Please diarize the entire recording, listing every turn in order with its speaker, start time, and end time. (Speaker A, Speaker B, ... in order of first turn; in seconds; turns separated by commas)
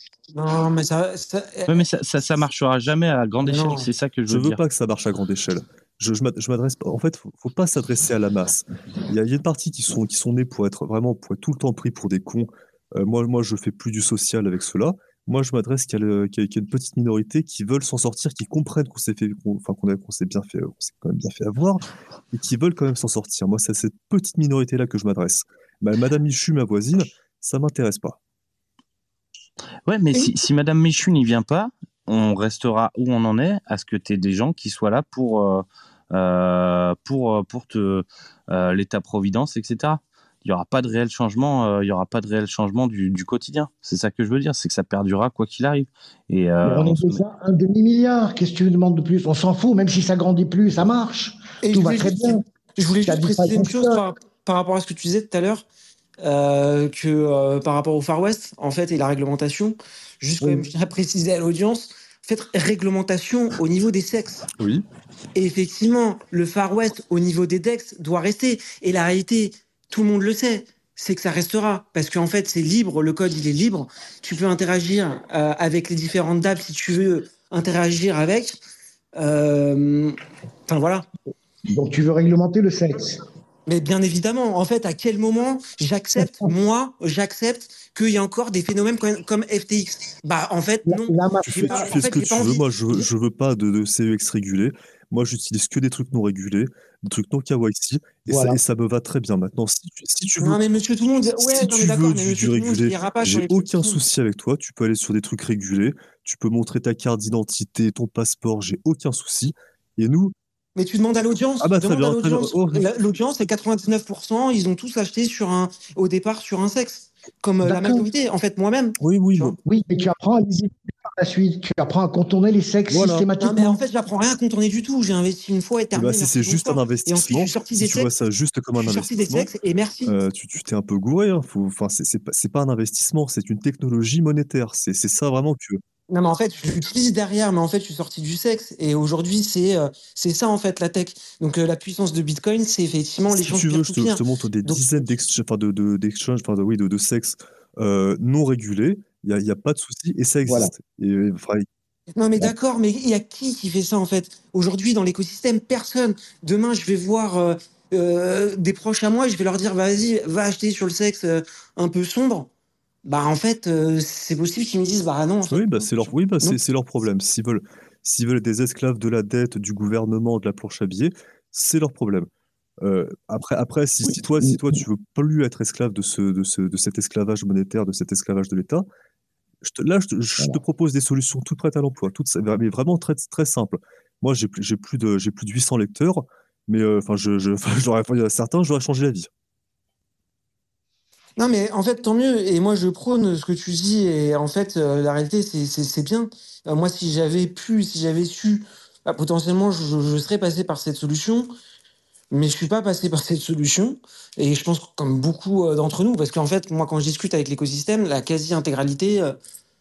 Speaker A: 0.3-1.8, Speaker B: 1.7-4.6, Speaker A: 3.4-3.9, Speaker C: 4.3-28.2, Speaker B: 29.9-47.2, Speaker D: 46.6-52.4, Speaker A: 51.6-55.7, Speaker D: 53.0-54.0, Speaker A: 56.2-64.5, Speaker D: 60.4-60.6, Speaker C: 64.5-64.8, Speaker A: 65.3-78.6, Speaker A: 79.2-81.0, Speaker D: 81.7-83.2, Speaker A: 83.7-93.0, Speaker D: 86.2-86.5, Speaker D: 90.9-92.0, Speaker C: 91.5-100.6, Speaker D: 98.3-98.6, Speaker A: 100.4-104.0, Speaker C: 101.3-110.3, Speaker A: 110.8-119.6, Speaker C: 111.6-112.9, Speaker D: 117.6-118.0, Speaker C: 119.0-119.6, Speaker D: 119.6-123.8, Speaker C: 122.9-123.3, Speaker A: 123.4-128.1, Speaker C: 125.9-129.5, Speaker A: 128.8-130.2, Speaker C: 130.0-135.8, Speaker A: 136.1-145.1, Speaker C: 143.3-151.7, Speaker D: 150.4-150.7, Speaker A: 152.2-162.5, Speaker A: 163.0-166.6, Speaker C: 165.4-172.3, Speaker C: 172.8-178.8, Speaker D: 174.0-174.8, Speaker C: 179.6-189.3, Speaker A: 191.4-201.5, Speaker A: 202.3-209.4